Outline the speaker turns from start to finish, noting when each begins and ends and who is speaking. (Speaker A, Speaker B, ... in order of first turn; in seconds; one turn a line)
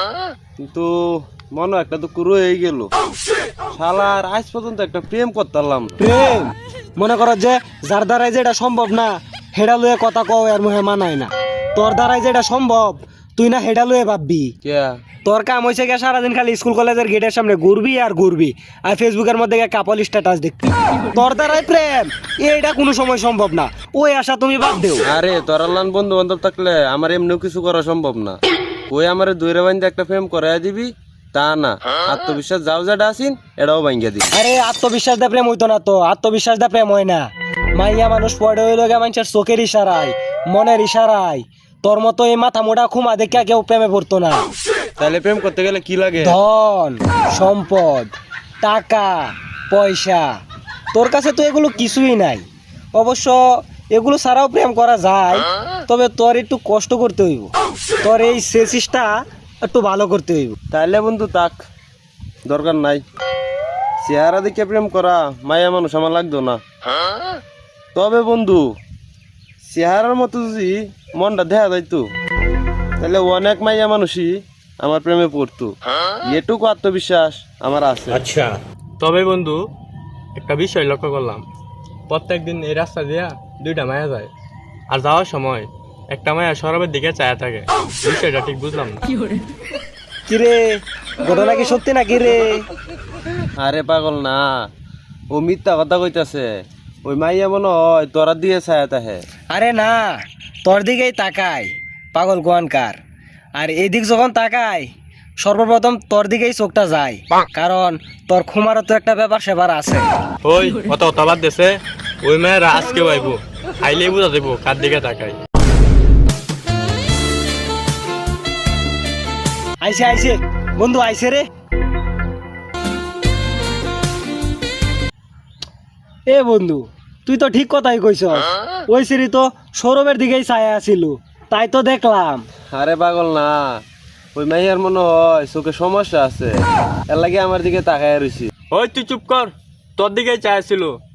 Speaker A: 0.6-2.9
Speaker A: 3.7-6.0
Speaker B: 6.0-14.5
Speaker A: 14.6-15.0
Speaker B: 15.2-25.1
Speaker A: 25.0-28.4
Speaker A: 28.9-34.3
Speaker B: 34.3-44.5
Speaker A: 45.0-46.4
Speaker B: 46.2-50.3
Speaker B: 50.9-57.5
Speaker B: 58.0-60.6
Speaker A: 60.7-61.6
Speaker A: 62.5-63.0
Speaker A: 64.0-66.6
Speaker A: 67.9-68.6
Speaker A: 69.7-72.0
Speaker A: 73.0-75.7
Speaker A: 76.3-78.3
Speaker C: 79.0-79.6
Speaker C: 80.3-81.4
Speaker C: 82.1-84.3
Speaker C: 84.9-89.1
Speaker B: 90.3-92.7
Speaker A: 93.6-94.5
Speaker A: 95.3-96.5
Speaker A: 97.0-99.2
Speaker B: 99.5-103.0
Speaker B: 103.5-104.9
Speaker B: 105.4-110.1
Speaker C: 110.4-115.4
Speaker B: 119.8-121.5
Speaker B: 126.3-132.4
Speaker A: 132.7-133.7
Speaker A: 134.3-136.5
Speaker A: 137.1-138.5
Speaker C: 138.7-140.9